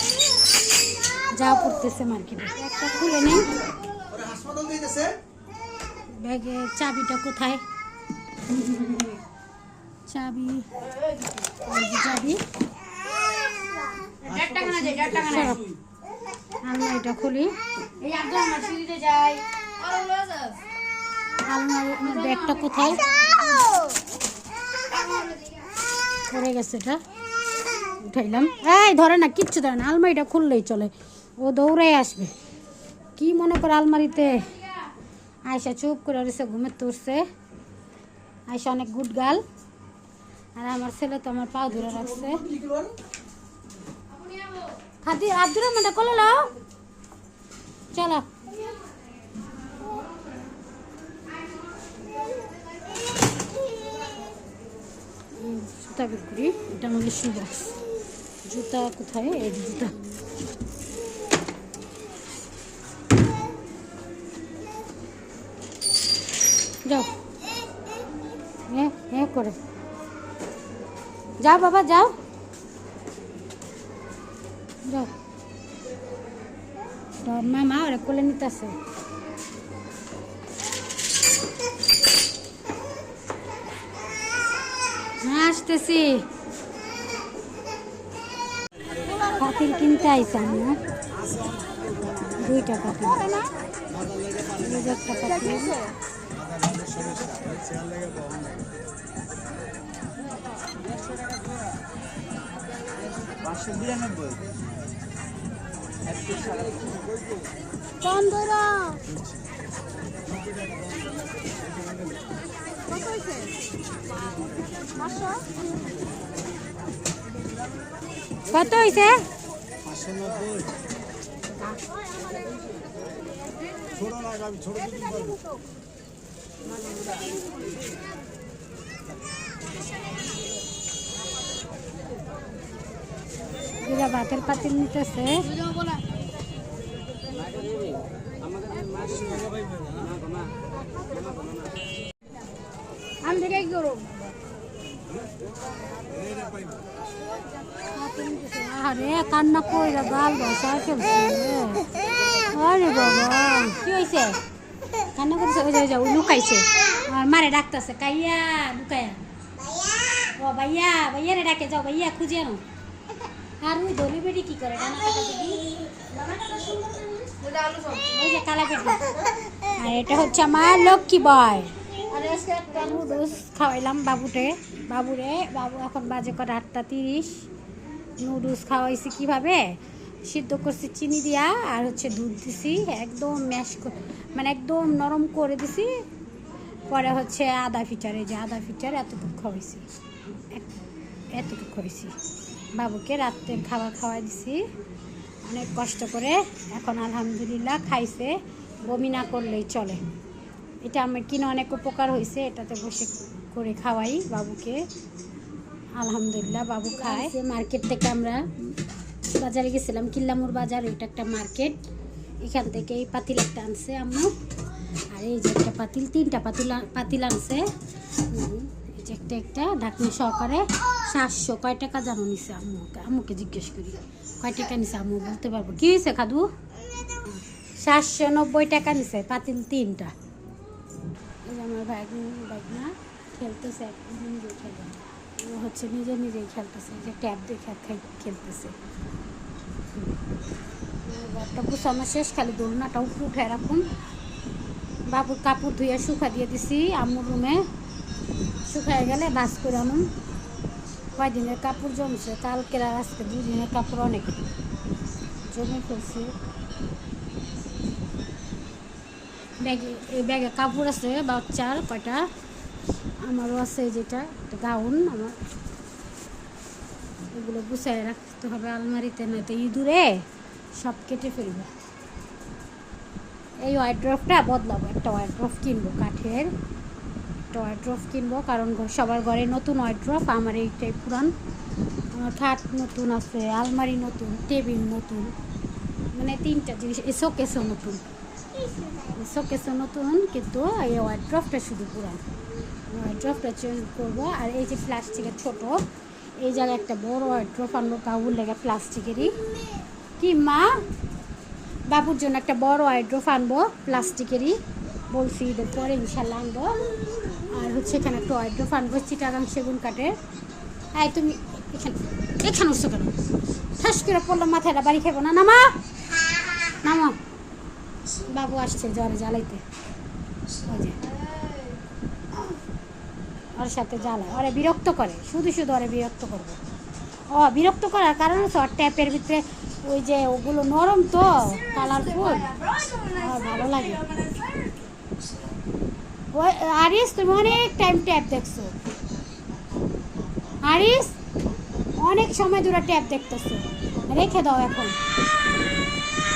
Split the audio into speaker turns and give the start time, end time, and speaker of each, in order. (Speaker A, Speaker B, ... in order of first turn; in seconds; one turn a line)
Speaker A: 1.3-3.5
Speaker A: 6.1-7.6
Speaker A: 8.6-9.1
Speaker A: 10.1-10.7
Speaker A: 11.6-12.4
Speaker B: 14.2-15.7
Speaker A: 14.3-15.7
Speaker A: 16.6-17.5
Speaker B: 18.0-20.6
Speaker A: 21.4-23.0
Speaker B: 22.0-23.5
Speaker B: 24.9-25.7
Speaker A: 26.3-27.0
Speaker A: 28.0-32.3
Speaker A: 33.2-34.5
Speaker A: 35.5-37.2
Speaker A: 38.5-39.4
Speaker A: 40.5-42.5
Speaker A: 45.0-46.5
Speaker A: 47.9-48.3
Speaker A: 55.3-57.8
Speaker A: 58.5-60.0
Speaker A: 68.7-69.6
Speaker A: 71.4-72.1
Speaker A: 74.8-75.1
Speaker A: 77.2-78.8
Speaker A: 85.2-86.2
Speaker A: 89.2-90.8
Speaker A: 92.3-93.4
Speaker A: 94.5-95.8
Speaker C: 96.8-97.5
Speaker C: 103.5-104.3
Speaker A: 108.0-109.0
Speaker A: 118.5-119.2
Speaker C: 120.0-120.5
Speaker A: 121.5-121.8
Speaker C: 124.5-124.8
Speaker A: 133.8-135.5
Speaker B: 135.4-136.1
Speaker A: 143.2-143.7
Speaker B: 143.3-144.2
Speaker A: 147.9-151.9
Speaker A: 152.5-154.4
Speaker A: 155.1-159.2
Speaker A: 160.3-162.6
Speaker A: 163.6-165.8
Speaker B: 166.1-168.1
Speaker A: 168.0-169.1
Speaker A: 169.7-171.7
Speaker B: 172.1-172.9
Speaker A: 172.5-177.5
Speaker A: 178.2-185.9
Speaker A: 186.9-189.8
Speaker A: 191.3-192.1
Speaker A: 192.7-194.6
Speaker A: 195.4-200.0
Speaker A: 200.8-204.8
Speaker A: 206.0-208.7
Speaker A: 209.4-211.8
Speaker A: 212.4-214.3
Speaker A: 215.1-217.7
Speaker A: 218.3-226.5
Speaker A: 227.2-230.1
Speaker A: 231.4-238.8
Speaker A: 241.0-243.8
Speaker A: 245.1-247.6
Speaker A: 248.7-250.1
Speaker A: 251.2-254.4
Speaker A: 255.5-256.3
Speaker A: 259.6-262.2
Speaker A: 263.2-265.4
Speaker A: 267.3-271.7
Speaker A: 273.6-276.5
Speaker A: 277.5-281.3
Speaker A: 282.1-285.3
Speaker A: 286.1-288.0
Speaker A: 288.8-292.2
Speaker A: 292.9-295.8
Speaker A: 296.4-299.4
Speaker A: 300.2-300.7
Speaker A: 301.9-304.6
Speaker A: 305.1-306.8
Speaker A: 307.4-310.1
Speaker A: 310.9-313.2
Speaker A: 313.7-315.7
Speaker A: 316.8-317.2
Speaker A: 318.1-319.6
Speaker A: 320.6-321.1
Speaker B: 321.0-321.8
Speaker A: 323.5-326.6
Speaker A: 327.3-332.5
Speaker B: 331.9-333.2
Speaker A: 333.1-334.1
Speaker B: 334.0-334.9
Speaker A: 336.3-338.7
Speaker A: 340.6-341.1
Speaker A: 341.9-345.0